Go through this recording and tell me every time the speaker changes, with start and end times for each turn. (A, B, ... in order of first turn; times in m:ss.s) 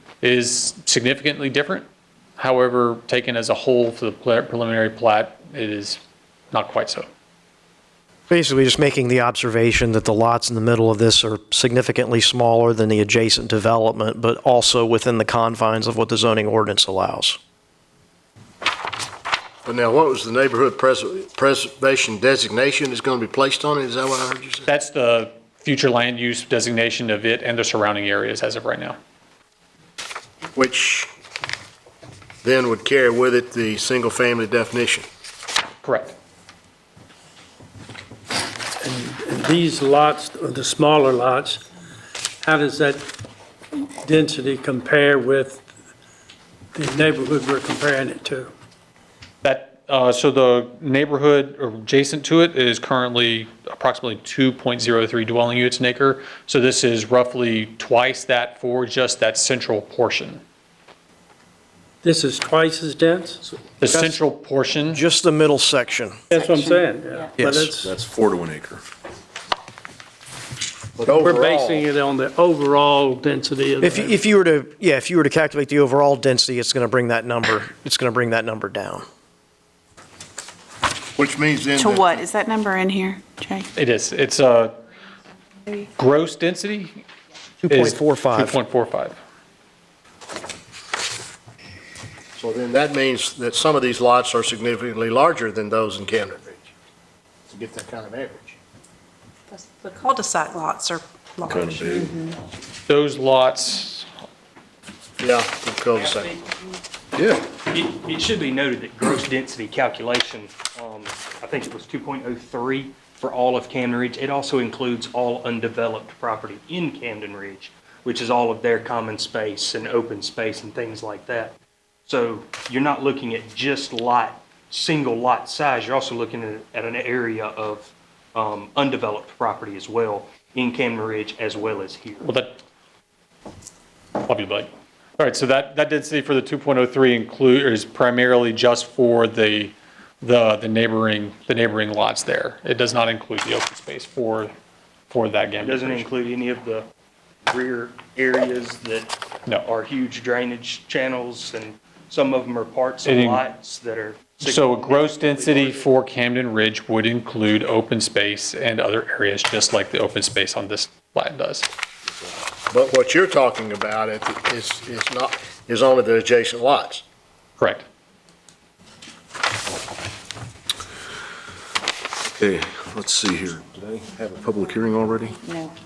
0:00.2-0:01.8 A
0:02.4-0:06.0 A
0:06.5-0:07.1 A
0:08.3-0:17.4 B
0:19.6-0:24.6 C
0:24.7-0:29.0 A
0:30.6-0:31.1 C
0:32.4-0:35.0 C
0:35.8-0:36.1 A
0:38.8-0:41.6 D
0:42.4-0:43.1 D
0:44.0-0:45.6 D
0:46.7-0:48.5 D
0:49.4-1:00.4 A
1:02.0-1:04.2 D
1:03.8-1:05.0 A
1:04.9-1:06.2 B
1:06.3-1:07.9 D
1:07.4-1:07.7 B
1:07.8-1:08.8 E
1:11.0-1:11.8 C
1:11.1-1:14.2 D
1:13.8-1:19.0 B
1:21.2-1:22.1 C
1:21.8-1:23.7 F
1:23.7-1:24.8 A
1:26.0-1:27.0 A
1:27.6-1:28.6 B
1:27.7-1:29.2 A
1:32.4-1:36.6 C
1:37.5-1:38.6 C
1:39.6-1:42.1 G
1:41.4-1:42.2 E
1:42.9-1:44.0 A
1:45.2-1:46.3 C
1:47.2-1:47.5 E
1:47.7-2:01.5 H
2:02.1-2:12.3 H
2:12.2-2:12.6 A
2:14.2-2:24.5 A
2:25.1-2:26.0 A
2:25.6-2:26.8 H
2:27.5-2:35.9 H
2:33.0-2:33.4 A
2:34.4-2:41.6 A
2:42.7-2:47.0 C
2:47.6-2:47.8 A
2:52.4-2:55.4 E
2:55.4-2:55.7 F